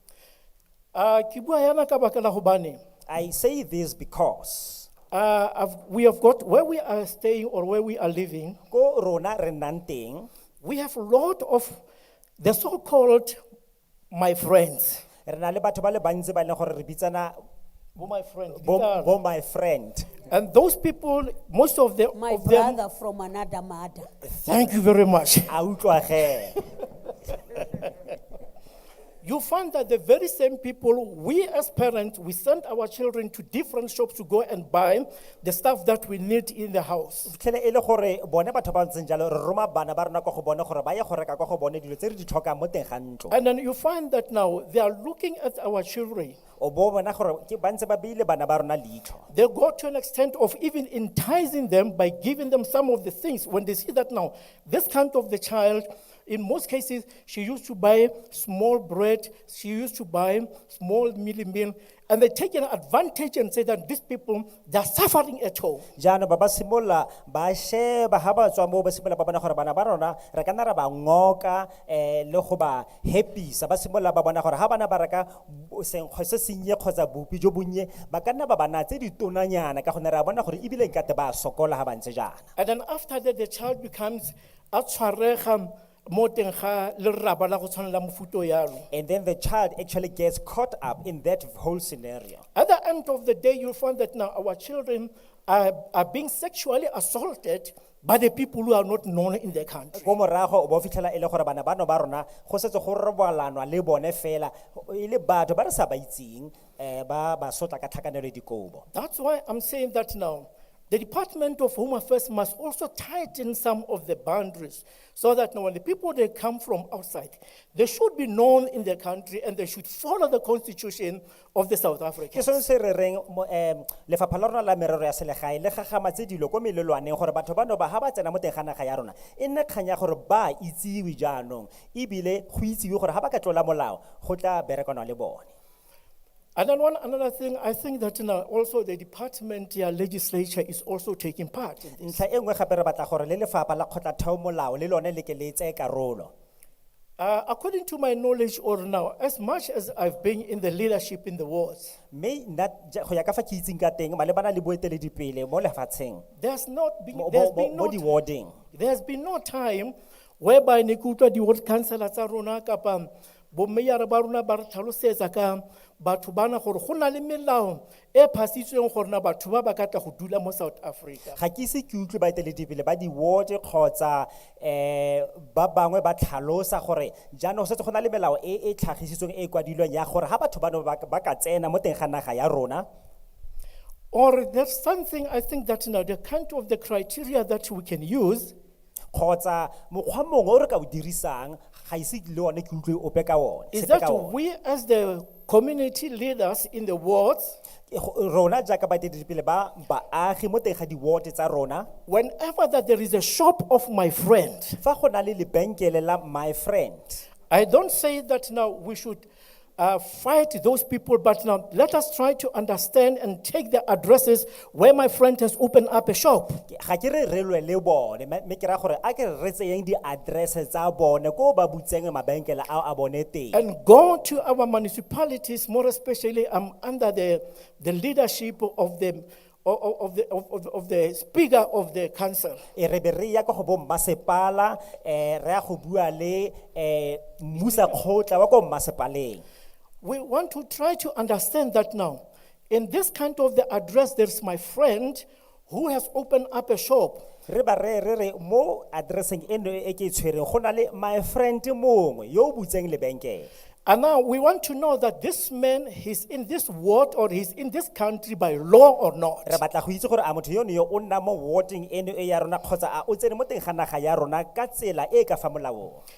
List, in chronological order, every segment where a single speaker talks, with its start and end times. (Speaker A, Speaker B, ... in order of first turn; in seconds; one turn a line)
Speaker A: 0.9-2.8
Speaker B: 3.1-4.9
Speaker A: 5.1-8.6
Speaker B: 8.7-10.3
Speaker A: 10.6-11.8
Speaker A: 12.4-13.4
Speaker A: 14.1-15.0
Speaker B: 15.3-17.4
Speaker A: 18.0-19.2
Speaker B: 18.6-20.1
Speaker A: 20.3-22.8
Speaker C: 22.1-24.1
Speaker A: 24.4-25.5
Speaker B: 25.5-26.6
Speaker A: 29.2-37.3
Speaker B: 37.3-43.4
Speaker A: 43.3-46.4
Speaker B: 46.6-49.2
Speaker A: 49.3-65.9
Speaker B: 66.0-82.5
Speaker A: 82.6-88.9
Speaker B: 88.9-92.4
Speaker A: 92.5-100.1
Speaker B: 100.0-108.8
Speaker A: 108.9-122.6
Speaker B: 122.3-135.5
Speaker A: 136.6-142.2
Speaker B: 142.0-146.3
Speaker A: 147.2-151.9
Speaker B: 152.1-156.2
Speaker A: 156.4-158.0
Speaker B: 157.1-158.6
Speaker A: 158.7-171.4
Speaker B: 171.4-182.9
Speaker A: 184.1-188.5
Speaker B: 189.1-194.3
Speaker A: 193.7-197.6
Speaker B: 197.9-201.9
Speaker A: 202.1-204.8
Speaker B: 204.8-207.2
Speaker A: 207.5-209.3
Speaker A: 209.8-216.6
Speaker B: 216.7-223.6
Speaker A: 223.5-232.6
Speaker B: 232.8-239.4
Speaker A: 240.0-247.2
Speaker B: 247.5-253.5
Speaker A: 253.9-259.6
Speaker B: 259.5-266.0